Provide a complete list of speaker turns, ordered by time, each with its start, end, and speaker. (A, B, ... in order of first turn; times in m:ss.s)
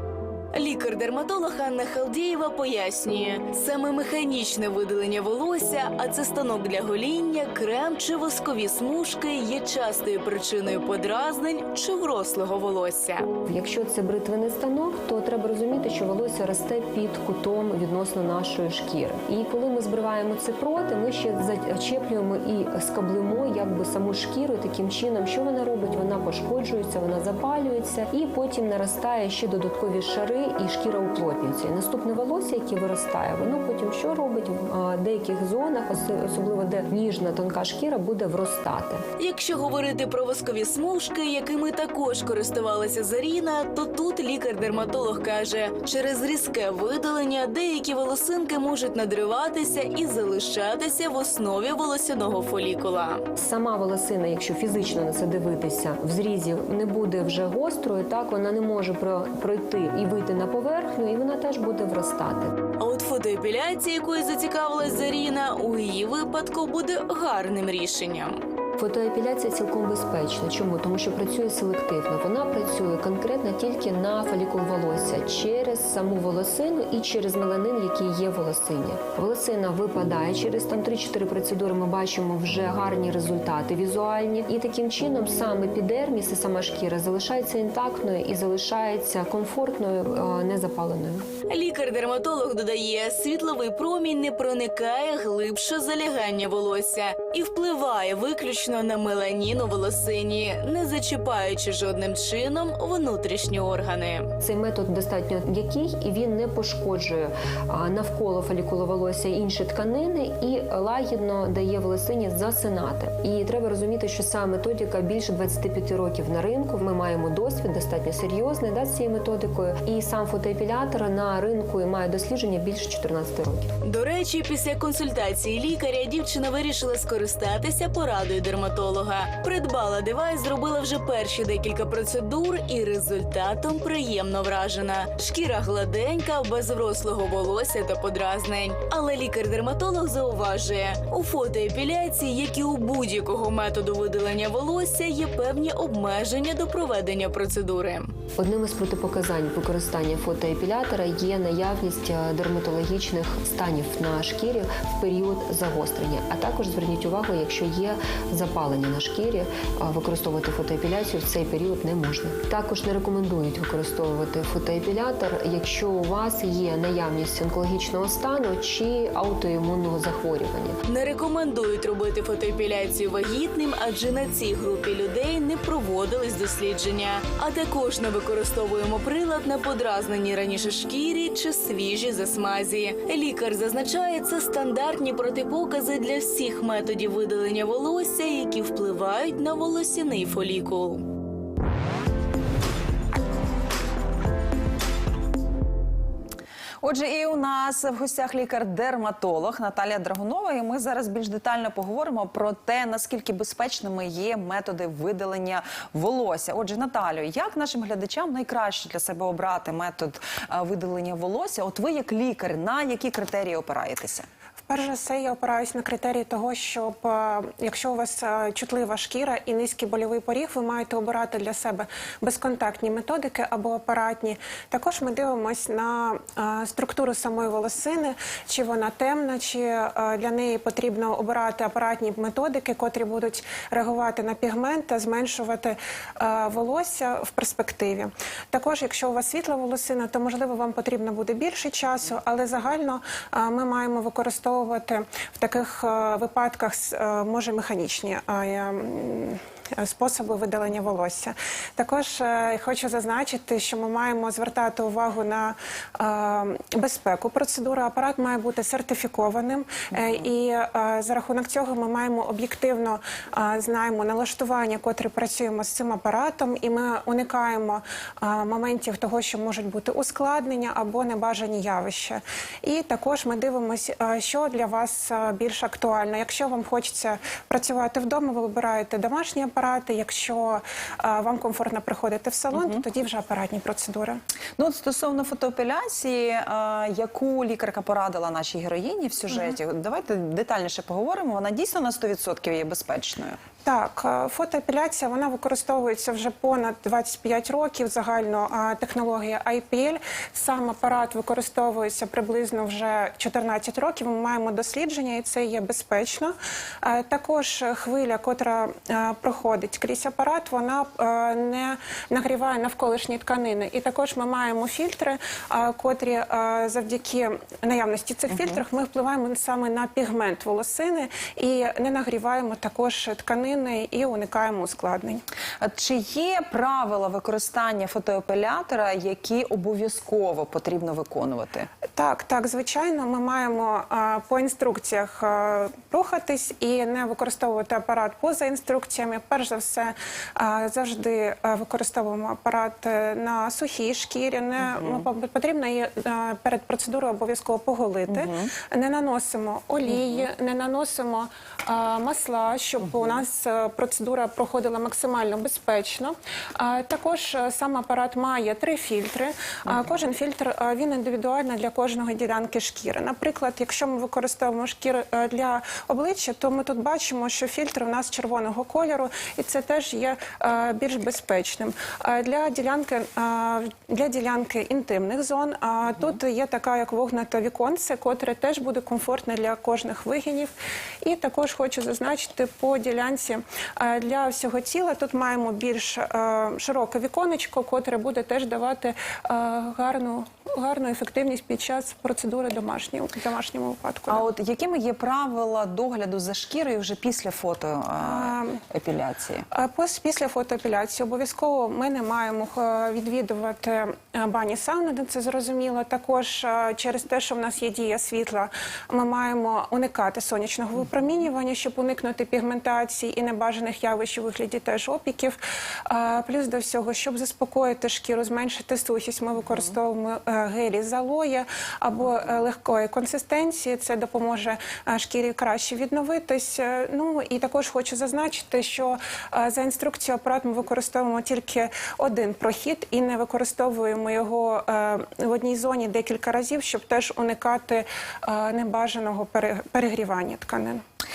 0:00.5-0:13.3 A
0:13.4-0:39.0 B
0:39.2-0:53.2 A
0:53.4-1:02.6 B
1:02.8-1:08.4 A
1:08.8-1:31.2 B
1:31.5-1:44.3 A
1:44.4-2:03.7 B
2:03.8-2:28.1 A
2:28.4-2:50.8 B
2:50.8-3:11.0 A
3:16.8-3:34.2 C
3:34.7-4:44.2 D
4:19.9-4:20.2 C
4:42.5-4:42.8 C
4:44.6-4:53.4 C
4:53.6-5:25.2 D
5:18.3-5:18.6 C
5:25.6-5:31.7 C
5:31.9-6:20.5 D
5:44.6-5:45.1 C
5:48.1-5:48.5 C
5:49.9-5:50.3 C
5:52.8-5:53.2 C
5:59.7-6:00.0 C
6:21.0-6:34.2 D
6:34.0-6:39.5 C
6:38.0-6:38.5 D
6:39.5-7:20.8 D